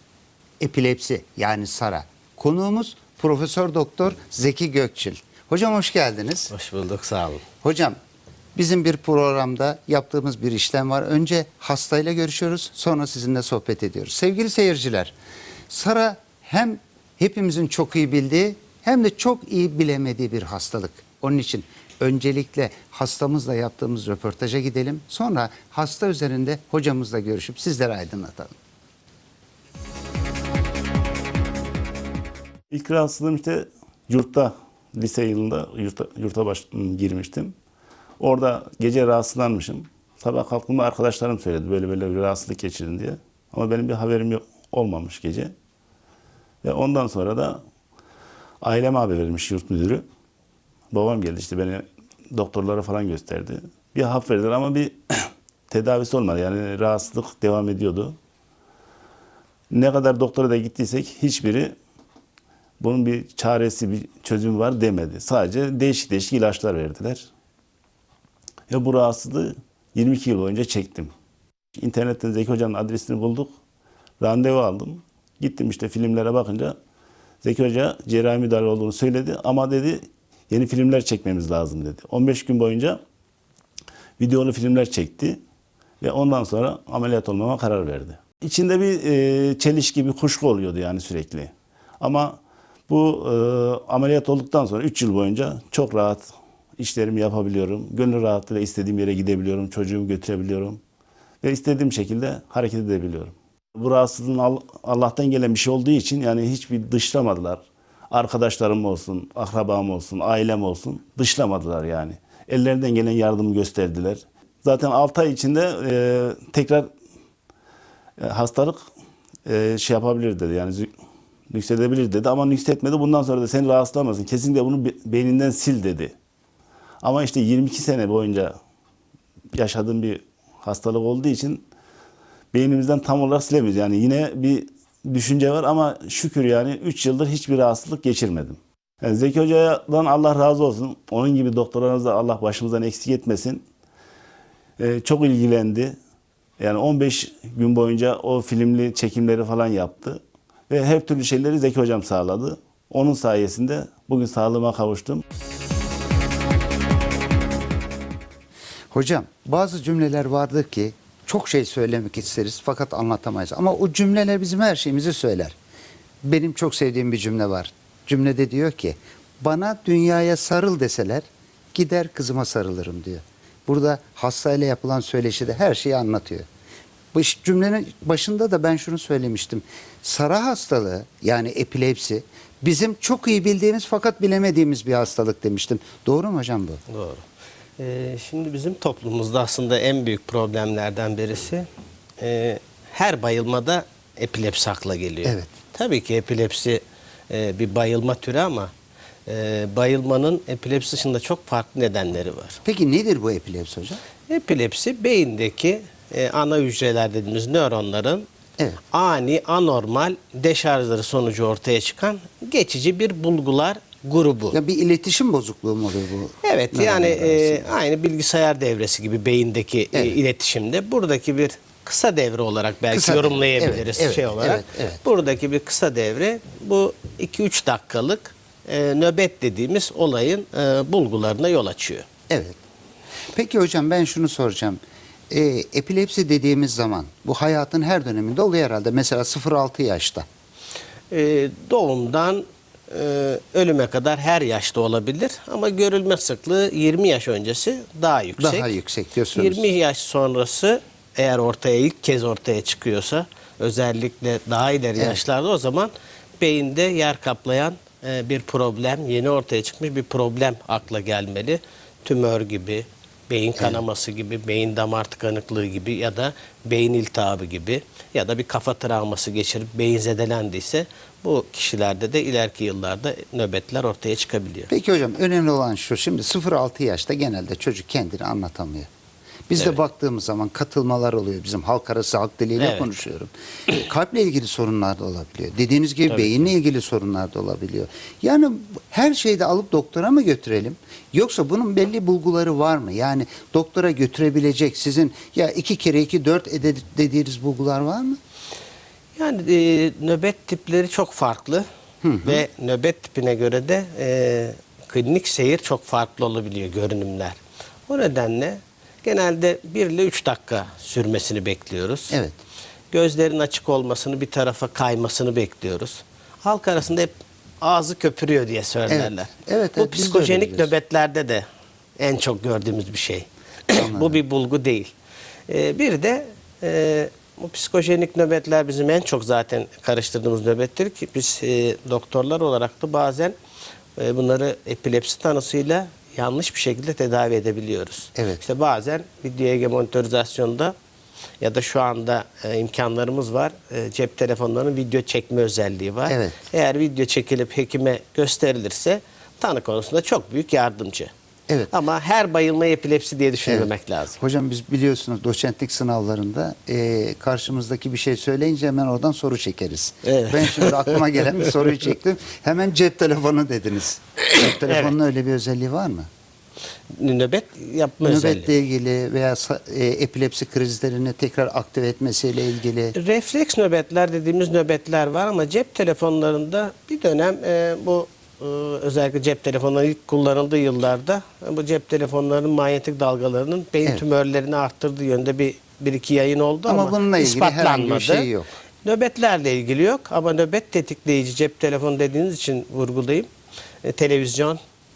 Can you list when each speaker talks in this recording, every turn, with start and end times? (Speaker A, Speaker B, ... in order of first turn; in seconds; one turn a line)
Speaker A: 0.6-6.5
Speaker B: 6.5-7.4
Speaker A: 7.6-8.0
Speaker A: 8.6-15.1
Speaker A: 15.7-28.5
Speaker C: 32.7-37.5
Speaker C: 38.2-45.5
Speaker C: 46.6-47.6
Speaker C: 48.6-50.0
Speaker C: 50.9-54.9
Speaker C: 55.7-58.1
Speaker C: 59.7-61.7
Speaker C: 62.8-67.2
Speaker C: 68.7-71.1
Speaker C: 71.8-73.5
Speaker C: 74.2-76.8
Speaker C: 77.4-83.0
Speaker C: 84.2-85.4
Speaker C: 86.0-100.8
Speaker C: 101.4-116.9
Speaker C: 118.2-118.8
Speaker C: 119.5-120.9
Speaker C: 121.5-126.1
Speaker C: 127.0-128.5
Speaker C: 129.5-131.6
Speaker C: 132.5-143.6
Speaker C: 144.8-145.9
Speaker C: 146.6-155.2
Speaker A: 158.9-165.5
Speaker A: 166.2-176.5
Speaker A: 177.1-186.8
Speaker B: 186.9-187.2
Speaker B: 187.8-191.7
Speaker B: 192.2-198.7
Speaker A: 195.2-195.5
Speaker B: 199.3-202.6
Speaker A: 202.6-204.0
Speaker B: 204.3-208.2
Speaker B: 208.9-214.6
Speaker A: 214.5-217.7
Speaker B: 216.4-232.0
Speaker A: 222.9-225.0
Speaker A: 232.3-232.6
Speaker A: 233.3-234.8
Speaker A: 235.3-240.2
Speaker B: 241.1-248.7
Speaker A: 248.4-249.7
Speaker B: 249.3-274.7
Speaker A: 274.7-278.9
Speaker A: 279.5-298.2
Speaker B: 282.6-282.9
Speaker B: 299.1-301.6
Speaker A: 302.0-302.4
Speaker B: 302.2-312.2
Speaker B: 312.9-317.1
Speaker B: 317.6-321.4
Speaker A: 318.9-320.7
Speaker B: 322.0-324.9
Speaker A: 323.8-324.2
Speaker B: 325.5-333.3
Speaker B: 334.0-340.7
Speaker A: 338.1-338.4
Speaker B: 341.4-351.1
Speaker A: 346.1-346.3
Speaker B: 351.7-354.2
Speaker A: 353.4-366.1
Speaker B: 360.1-361.3
Speaker B: 364.6-364.9
Speaker B: 366.9-368.5
Speaker A: 368.0-372.9
Speaker B: 372.9-388.3
Speaker A: 386.6-388.5
Speaker B: 388.8-393.3
Speaker B: 393.8-394.6